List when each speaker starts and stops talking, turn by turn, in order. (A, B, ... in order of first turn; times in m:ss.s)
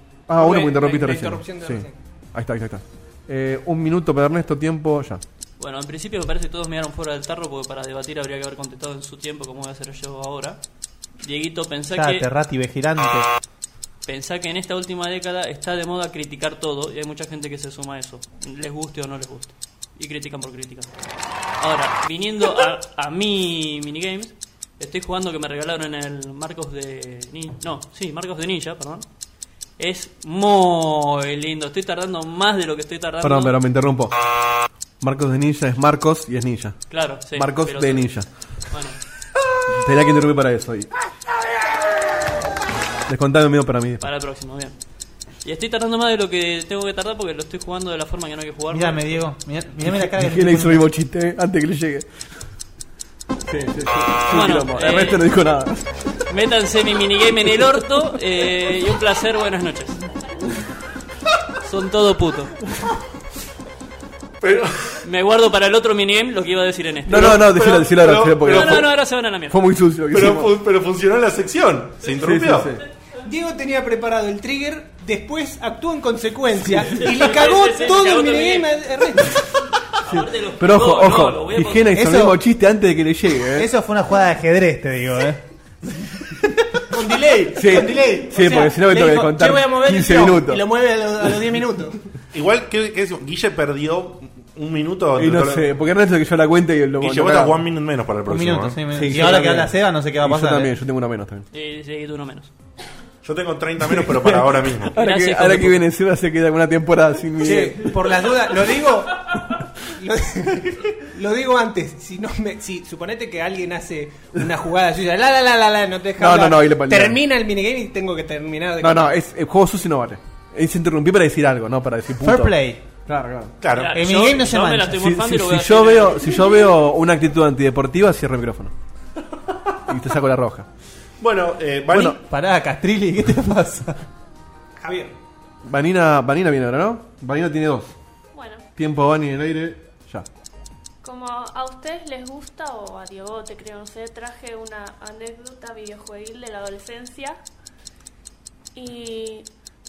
0:00.3-0:05.2 A
0:00.3-0:02.0 B
0:05.6-0:10.6 C
0:11.2-0:12.3 C
0:11.9-0:13.3 D
0:14.1-0:20.9 C
0:21.6-0:29.0 C
0:29.8-0:33.6 C
0:33.2-0:34.1 A
0:35.0-0:36.8 A
0:36.9-0:38.1 C
0:37.3-0:38.3 A
0:38.7-0:39.0 C
0:39.7-0:40.9 A
0:43.1-0:44.1 A
0:44.0-0:44.8 C
0:45.4-0:49.2 C
0:48.7-0:50.8 D
0:49.9-0:52.1 A
0:53.5-0:55.9 A
0:54.3-0:55.2 C
0:56.3-1:00.0 C
1:01.6-1:02.6 C
1:04.4-1:05.0 E
1:05.0-1:07.4 C
1:07.1-1:10.6 A
1:07.1-1:08.9 E
1:08.4-1:09.6 C
1:10.1-1:12.8 E
1:12.2-1:12.8 A
1:13.2-1:19.4 B
1:17.0-1:18.8 C
1:19.9-1:22.0 C
1:20.0-1:23.7 A
1:22.0-1:22.4 D
1:23.6-1:25.4 D
1:26.9-1:32.0 B
1:27.5-1:30.6 A
1:32.3-1:35.7 E
1:35.2-1:37.6 A
1:37.0-1:39.2 E
1:38.3-1:40.7 D
1:38.9-1:41.5 A
1:41.5-1:42.5 C
1:43.2-1:45.0 E
1:43.8-1:47.9 A
1:45.0-1:45.8 C
1:47.4-1:59.1 B
1:56.2-1:57.2 A
1:58.8-2:02.6 A
2:02.2-2:02.8 D
2:03.1-2:03.5 A
2:03.6-2:04.2 E
2:03.8-2:06.7 C
2:04.0-2:05.0 D
2:05.0-2:08.7 A
2:09.9-2:10.7 A
2:11.2-2:12.2 E
2:11.9-2:12.2 A
2:12.2-2:14.0 D
2:14.8-2:15.2 B
2:15.6-2:18.0 A
2:18.3-2:18.7 F
2:18.8-2:20.3 A
2:21.0-2:27.4 F
2:28.8-2:29.5 F